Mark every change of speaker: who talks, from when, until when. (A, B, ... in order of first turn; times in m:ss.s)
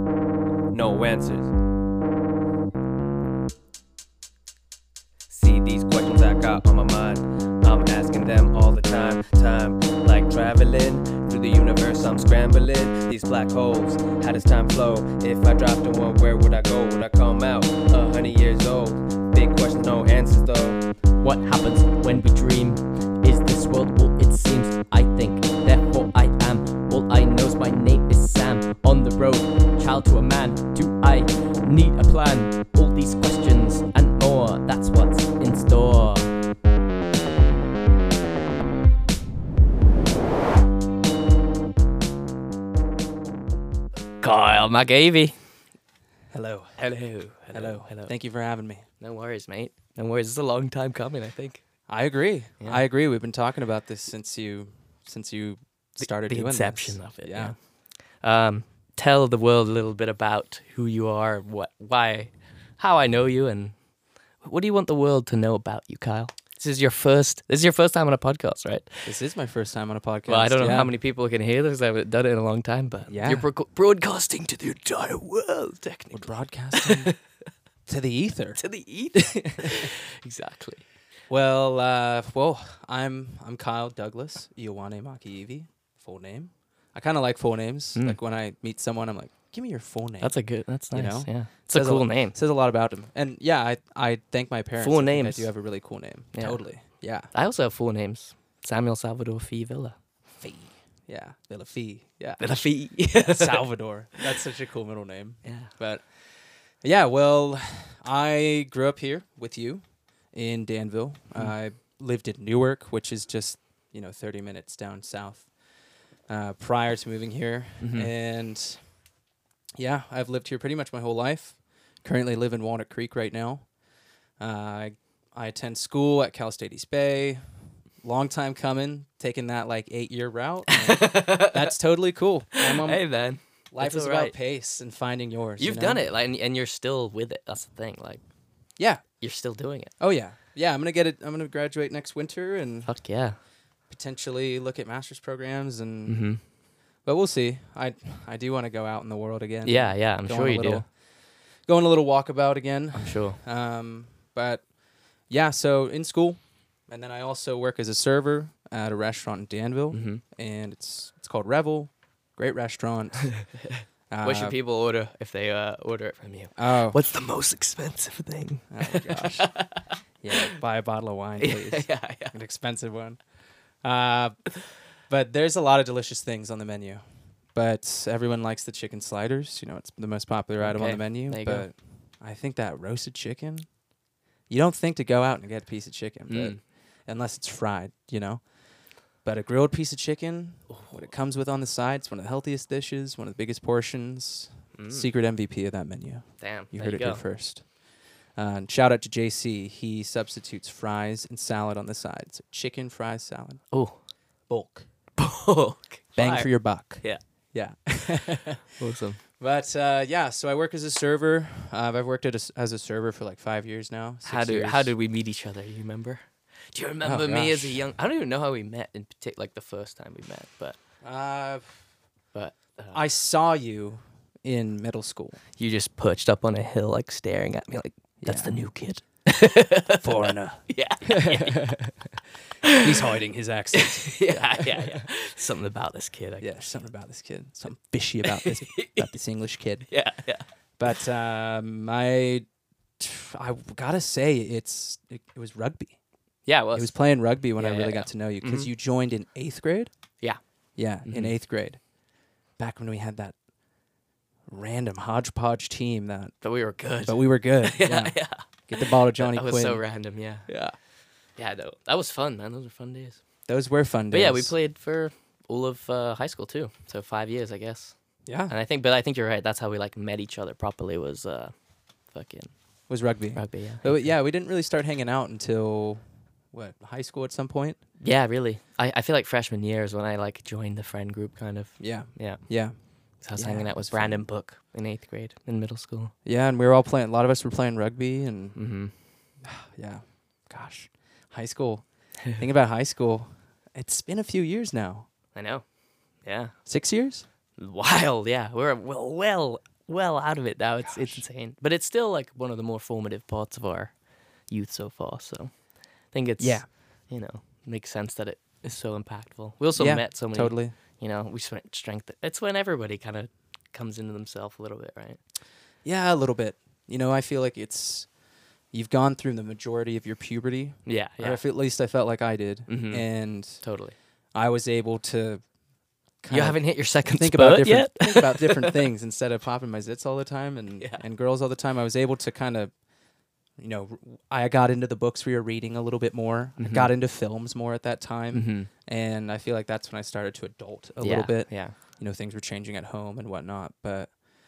0:00.7-0:01.5 A
0:05.3-0:20.8 A
0:21.2-0:36.3 B
0:44.2-0:45.4 B
0:46.3-0:46.8 C
0:46.8-0:48.1 B
0:47.5-0:48.8 C
0:49.0-0:51.6 B
0:51.9-0:57.6 C
0:56.0-0:57.6 B
0:58.1-1:03.8 B
1:04.4-1:09.1 B
1:09.0-1:11.0 C
1:10.3-1:17.1 B
1:13.1-1:13.5 C
1:16.1-1:17.1 C
1:17.9-1:19.9 C
1:18.6-1:20.8 B
1:21.3-1:30.3 C
1:30.2-1:32.4 B
1:30.9-1:37.3 C
1:34.8-1:35.5 B
1:36.3-1:36.6 B
1:37.3-1:40.0 B
1:40.4-1:55.5 C
1:42.4-1:43.6 B
1:45.4-1:45.7 B
1:56.3-1:58.8 C
1:57.8-1:58.1 B
1:59.8-2:03.7 C
2:04.4-2:13.0 C
2:10.7-2:11.7 B
2:12.6-2:14.3 B
2:13.7-2:16.0 C
2:15.6-2:18.2 B
2:18.8-2:19.0 C
2:19.2-2:19.9 B
2:20.0-2:22.9 C
2:22.8-2:23.4 B
2:23.9-2:26.2 C
2:26.0-2:26.4 B
2:27.0-2:31.0 C
2:29.6-2:30.8 B
2:31.6-2:34.6 C
2:32.9-2:33.4 B
2:35.3-2:43.4 C
2:39.9-2:40.2 B
2:43.4-2:50.5 B
2:44.1-2:44.5 C
2:46.6-2:47.0 C
2:48.7-2:49.6 C
2:50.2-2:53.2 C
2:51.4-2:52.4 B
2:53.8-2:57.0 C
2:57.5-3:03.7 C
3:00.6-3:01.7 B
3:04.5-3:08.4 C
3:06.3-3:06.6 B
3:09.1-3:17.7 C
3:14.7-3:15.1 B
3:16.4-3:17.2 B
3:18.3-3:23.6 C
3:23.7-3:24.0 B
3:24.5-3:24.9 C
3:25.2-3:27.2 B
3:26.2-3:28.7 C
3:28.8-3:29.2 B
3:29.4-3:34.9 C
3:34.2-3:40.8 B
3:37.0-3:37.8 C
3:41.0-3:41.8 C
3:42.3-3:43.0 B
3:42.9-3:45.4 C
3:45.6-3:51.6 B
3:48.2-3:48.5 C
3:50.0-3:51.9 C
3:52.7-3:55.1 C
3:53.7-3:56.5 B
3:56.4-3:59.9 C
3:58.3-3:59.1 B
3:59.9-4:00.4 B
4:00.8-4:02.4 C
4:03.0-4:06.0 C
4:06.4-4:06.9 B
4:06.7-4:09.9 C
4:07.6-4:08.7 B
4:10.8-4:11.8 C
4:11.0-4:11.3 B
4:12.6-4:13.3 C
4:14.5-4:16.4 C
4:16.4-4:20.5 B
4:17.0-4:19.8 C
4:20.5-4:20.8 C
4:21.4-4:23.2 B
4:23.5-4:24.5 C
4:24.1-4:27.9 B
4:28.2-4:28.5 C
4:28.5-4:31.5 B
4:32.1-4:32.5 B
4:32.9-4:36.0 C
4:33.3-4:33.9 B
4:36.5-4:37.8 C
4:38.0-4:42.5 B
4:41.8-4:44.3 C
4:43.2-4:46.1 B
4:46.2-4:48.6 C
4:48.6-4:48.9 B
4:49.4-4:55.1 C
4:55.3-4:55.6 B
4:56.2-4:56.6 B
4:56.6-4:57.2 C
4:57.6-5:05.5 B
5:00.8-5:01.2 C
5:06.1-5:15.2 B
5:06.4-5:06.7 C
5:09.8-5:10.8 C
5:15.8-5:18.1 C
5:18.7-5:23.6 C
5:20.8-5:21.4 B
5:22.7-5:24.0 B
5:24.3-5:25.4 C
5:26.2-5:32.7 C
5:26.3-5:28.8 B
5:33.6-5:44.1 C
5:36.6-5:36.9 B
5:38.3-5:38.7 B
5:41.0-5:41.8 B